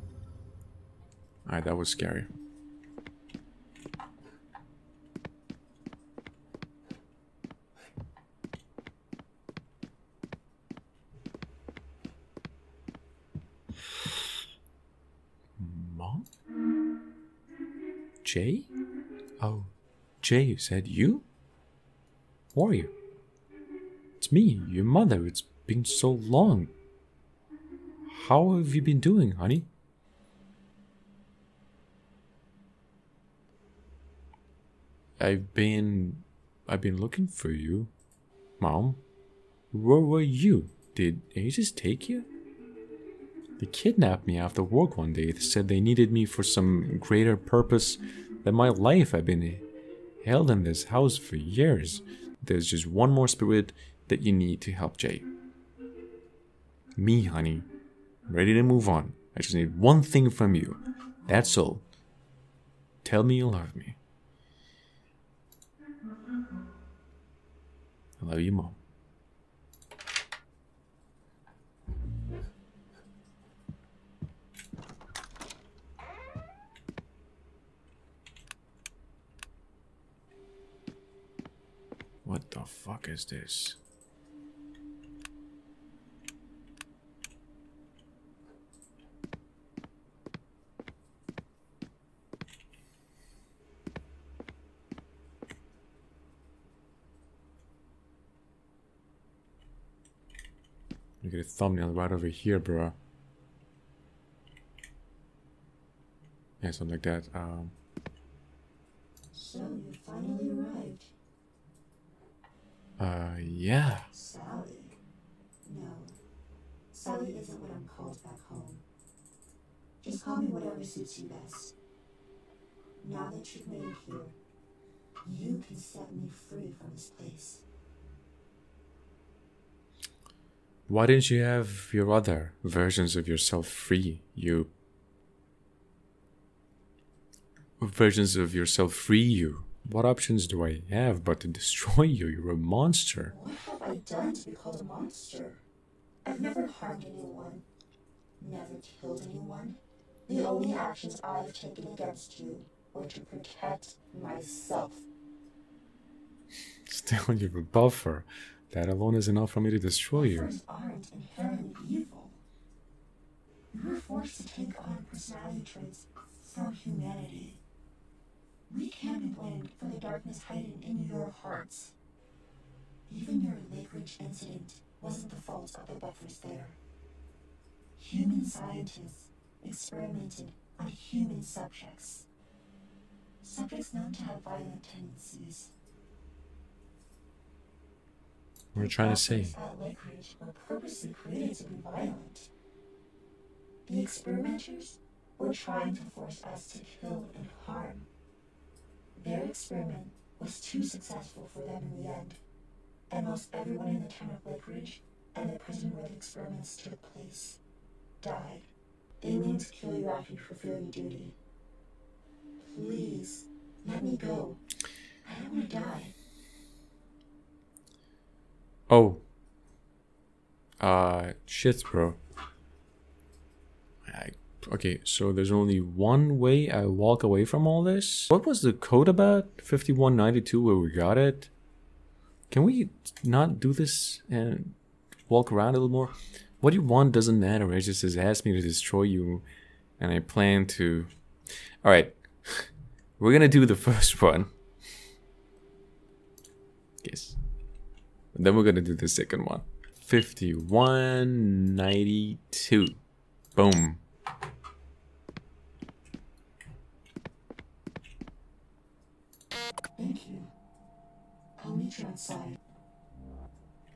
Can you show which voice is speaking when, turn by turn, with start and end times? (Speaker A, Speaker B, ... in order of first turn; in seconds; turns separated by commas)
Speaker A: 1.4-2.3, Speaker A: 15.6-16.3, Speaker A: 18.2-18.7, Speaker A: 19.4-19.7, Speaker A: 20.2-21.2, Speaker A: 22.5-22.9, Speaker A: 24.2-26.7, Speaker A: 28.1-29.7, Speaker A: 35.2-37.9, Speaker A: 38.6-39.0, Speaker A: 39.7-42.3, Speaker A: 43.6-49.6, Speaker A: 50.2-55.3, Speaker A: 57.0-57.6, Speaker A: 58.3-61.8, Speaker A: 63.0-64.0, Speaker A: 68.2-68.8, Speaker A: 82.2-83.8, Speaker A: 101.2-103.0, Speaker A: 106.6-107.7, Speaker B: 109.3-111.1, Speaker A: 113.0-114.1, Speaker B: 114.1-115.0, Speaker B: 115.6-116.2, Speaker B: 116.9-118.8, Speaker B: 120.0-121.7, Speaker B: 123.0-124.3, Speaker B: 125.2-127.6, Speaker A: 130.9-134.7, Speaker A: 137.8-143.3, Speaker B: 143.3-145.6, Speaker B: 146.2-147.6, Speaker B: 148.4-155.1, Speaker A: 156.8-160.5, Speaker B: 160.1-162.4, Speaker B: 163.7-167.6, Speaker B: 168.7-171.9, Speaker B: 173.1-176.8, Speaker B: 177.9-182.3, Speaker B: 183.4-185.7, Speaker A: 188.7-189.5, Speaker B: 188.7-192.5, Speaker B: 193.8-198.1, Speaker B: 199.1-202.4, Speaker B: 203.1-207.6, Speaker B: 208.2-211.4, Speaker B: 212.6-214.6, Speaker B: 215.2-216.1, Speaker A: 218.9-219.2, Speaker A: 220.8-222.2, Speaker A: 224.1-231.5, Speaker A: 232.5-234.8, Speaker A: 235.3-239.4, Speaker A: 240.0-241.1, Speaker A: 241.8-244.5, Speaker A: 247.0-247.4, Speaker A: 248.3-253.0, Speaker A: 253.5-254.0, Speaker B: 259.9-260.5, Speaker B: 261.6-262.6